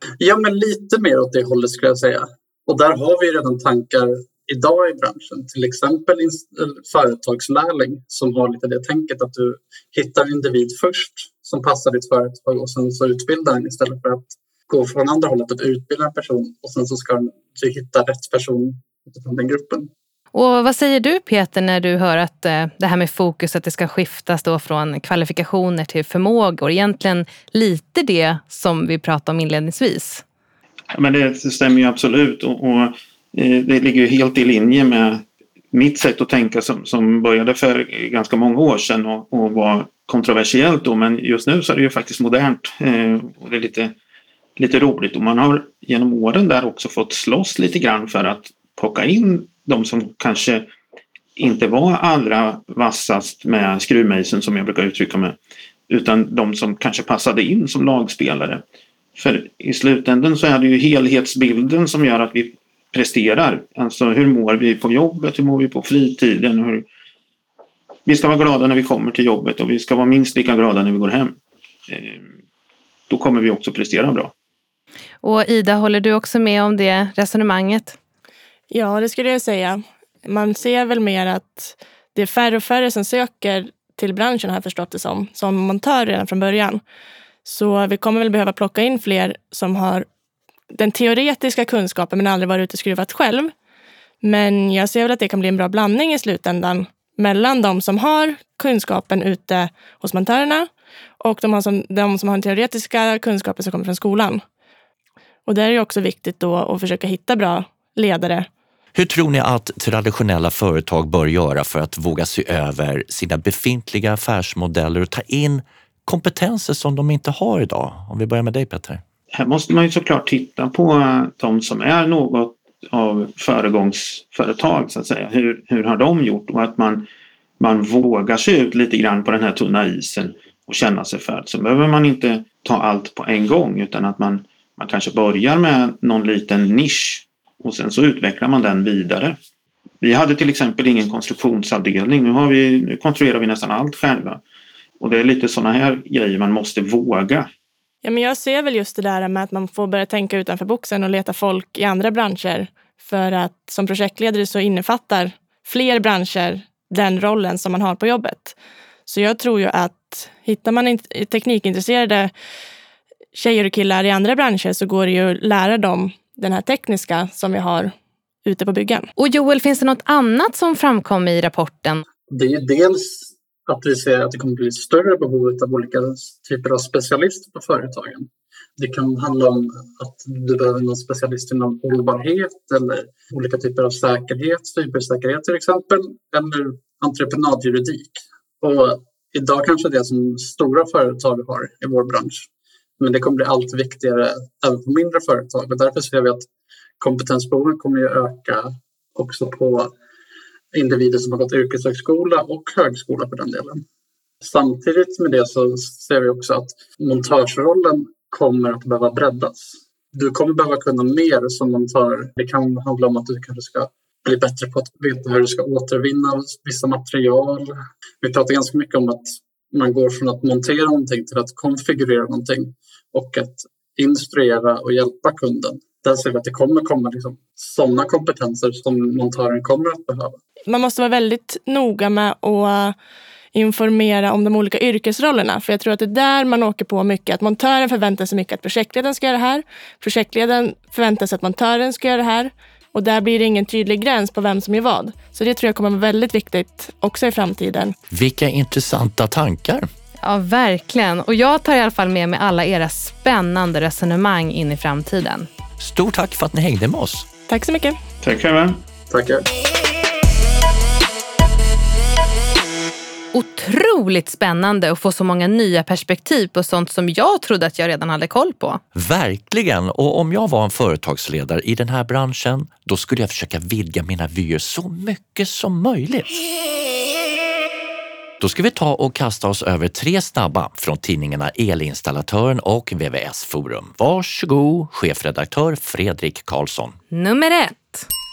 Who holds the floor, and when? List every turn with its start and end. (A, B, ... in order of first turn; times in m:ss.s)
0:00.2-0:19.9 A
0:20.3-0:30.2 B
0:30.9-0:43.9 C
0:44.6-0:50.7 C
0:51.4-0:55.4 C
0:55.9-0:58.6 C
0:59.2-1:06.9 C
1:08.1-1:11.4 C
1:11.9-1:12.3 C
1:13.1-1:14.3 C
1:15.2-1:18.0 B
1:18.7-1:26.8 D
1:27.4-1:30.1 D
1:30.7-1:33.5 D
1:34.2-1:44.4 D
1:45.5-1:48.5 D
1:49.0-1:59.0 E
1:59.3-2:07.1 C
2:07.6-2:19.4 C
2:20.0-2:24.4 C
2:25.0-2:27.5 C
2:28.0-2:38.6 D
2:39.1-2:42.3 D
2:43.4-2:47.9 D
2:48.4-2:49.1 D
2:49.2-2:52.0 B
2:52.3-3:12.5 A
3:13.0-3:16.5 A
3:17.0-3:19.9 A
3:20.7-3:23.8 A
3:24.4-3:50.4 A
3:50.7-3:53.0 D
3:53.5-4:08.0 D
4:08.1-4:09.9 E
4:10.2-4:15.5 B
4:15.8-4:17.3 E
4:17.5-4:18.0 D
4:18.2-4:18.8 C
4:19.1-4:19.4 A
4:23.3-4:28.8 B
4:29.0-4:36.4 E
4:38.4-4:47.0 E
4:47.1-4:48.1 B